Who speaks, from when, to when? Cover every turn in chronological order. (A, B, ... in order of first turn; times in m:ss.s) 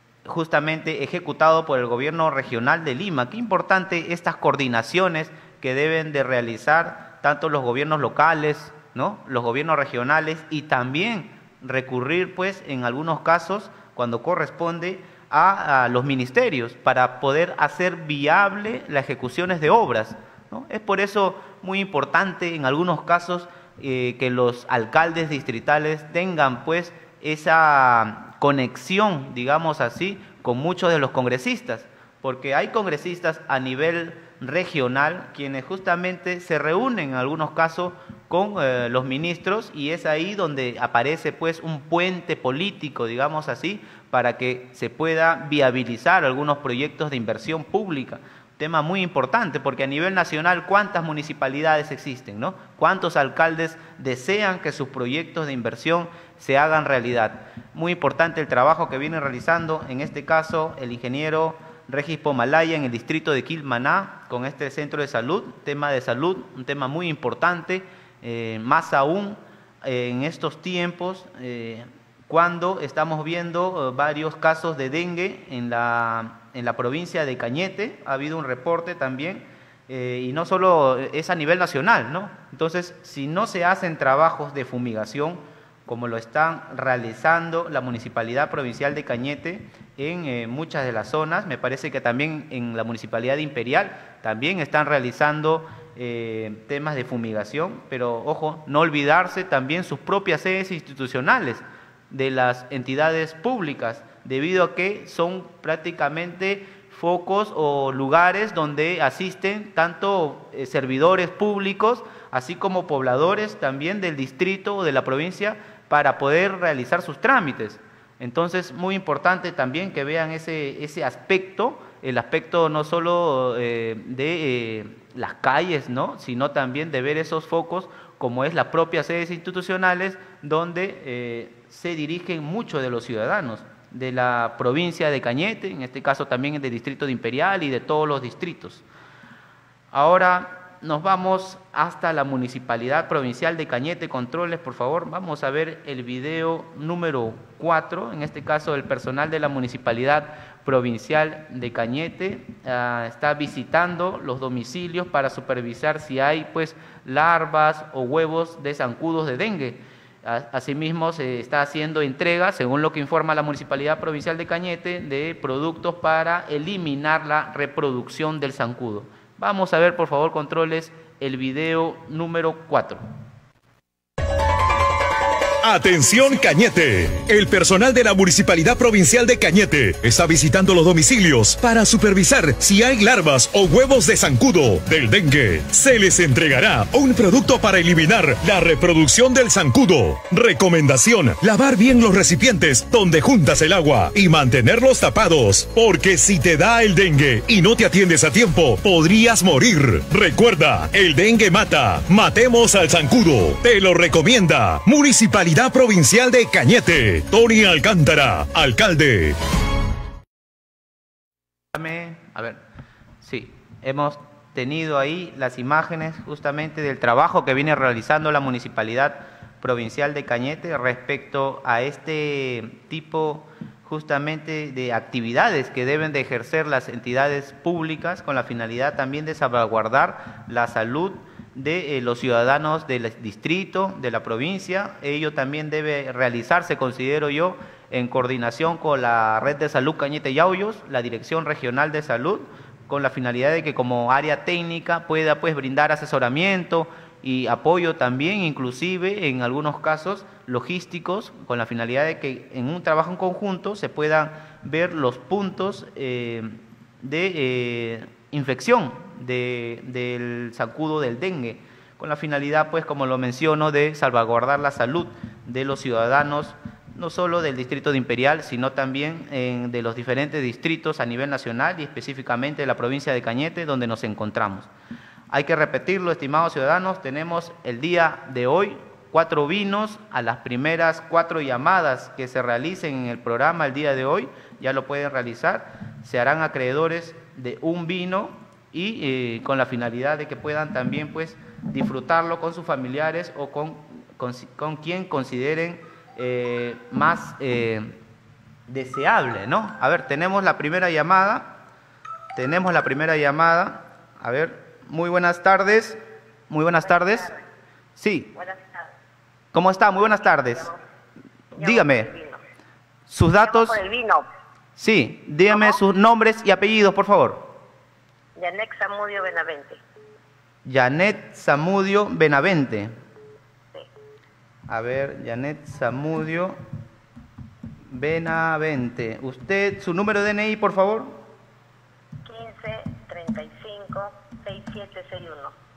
0:00.3-2:18.8 A
2:19.9-2:53.0 A
2:55.6-3:29.4 B
3:31.7-3:32.6 A
3:33.2-4:34.7 A
4:35.3-4:58.0 A
4:58.7-5:01.6 A
5:02.4-5:06.0 A
5:06.5-5:07.3 A
5:06.8-5:07.4 C
5:08.0-5:08.3 A
5:08.3-5:08.9 C
5:09.5-5:10.7 A
5:09.9-5:10.8 C
5:11.6-5:12.4 C
5:11.6-5:12.1 A
5:13.1-5:13.8 A
5:13.4-5:14.3 C
5:14.8-5:17.4 A
5:15.5-5:15.8 C
5:18.4-5:19.8 C
5:20.7-5:22.9 A
5:24.7-5:26.6 A
5:27.9-5:31.2 A
5:32.2-5:35.6 C